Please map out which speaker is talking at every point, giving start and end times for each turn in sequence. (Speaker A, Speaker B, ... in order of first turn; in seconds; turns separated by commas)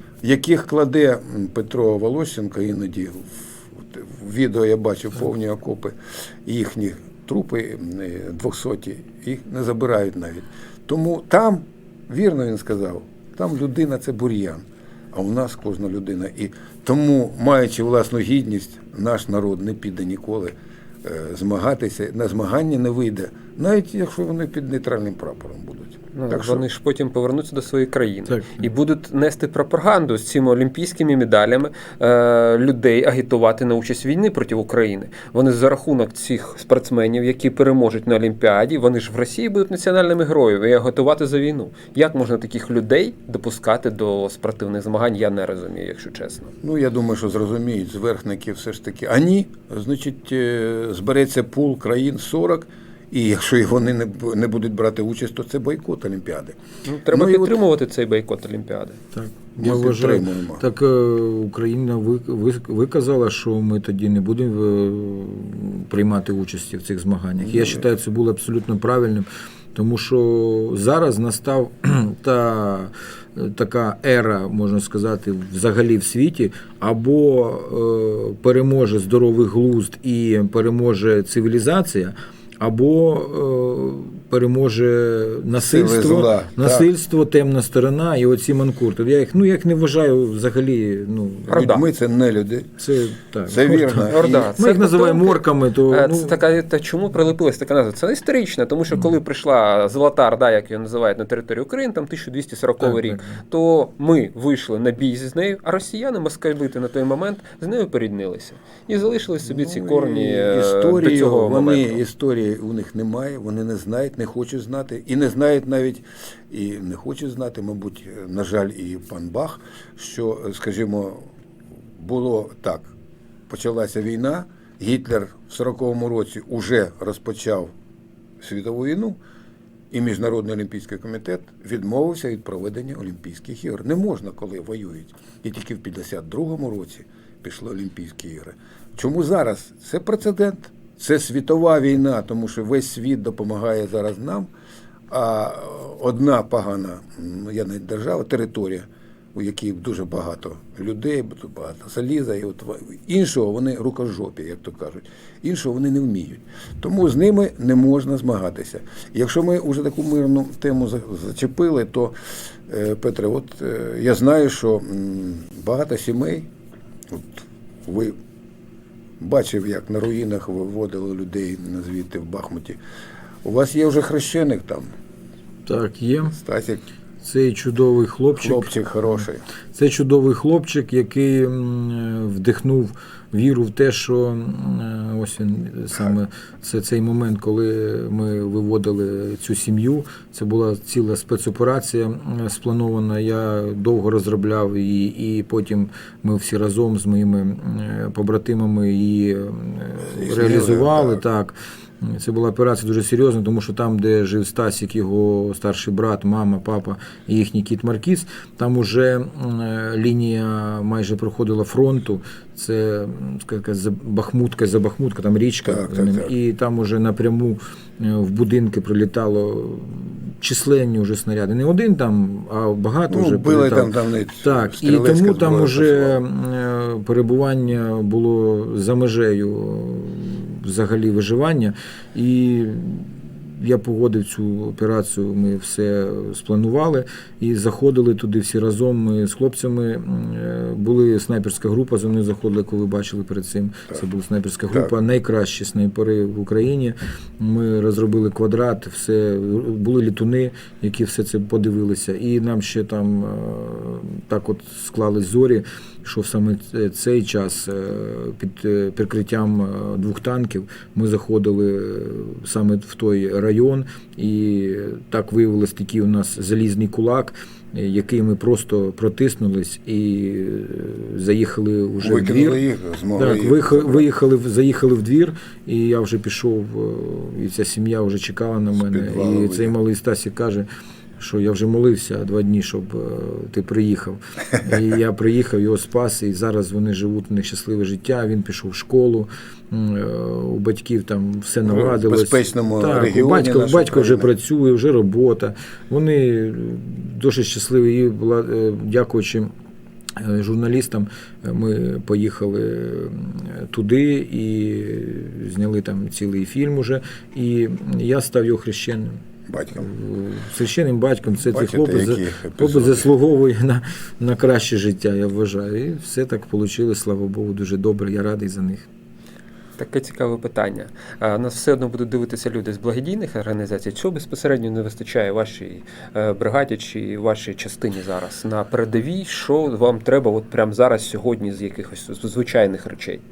Speaker A: 0.2-26.6, Speaker B: 26.1-46.5, Speaker C: 28.3-28.7, Speaker A: 46.6-56.6, Speaker B: 56.9-59.0, Speaker A: 57.1-57.6, Speaker C: 59.1-91.5, Speaker A: 59.6-60.6, Speaker A: 67.4-67.8, Speaker A: 85.5-86.9, Speaker A: 91.5-92.7, Speaker B: 91.5-91.8, Speaker C: 92.8-96.4, Speaker A: 93.5-94.5, Speaker B: 94.1-111.9, Speaker C: 102.8-103.4, Speaker A: 109.4-121.3, Speaker A: 121.9-122.9, Speaker A: 123.5-127.7, Speaker A: 128.4-129.2, Speaker A: 129.9-144.5, Speaker A: 145.1-166.5, Speaker A: 167.1-168.2, Speaker A: 169.2-172.8, Speaker A: 173.4-174.9, Speaker C: 175.7-176.4, Speaker A: 176.3-176.8, Speaker C: 177.2-178.7, Speaker A: 178.3-179.4, Speaker C: 179.8-272.6, Speaker A: 200.0-201.2, Speaker A: 215.6-216.3, Speaker A: 223.1-226.2, Speaker A: 272.0-274.1, Speaker C: 273.1-280.7, Speaker A: 278.7-279.7, Speaker C: 281.2-299.5, Speaker A: 291.6-294.3, Speaker C: 300.1-309.2, Speaker A: 309.5-309.9, Speaker C: 309.8-318.9, Speaker A: 311.4-313.1, Speaker B: 319.8-333.2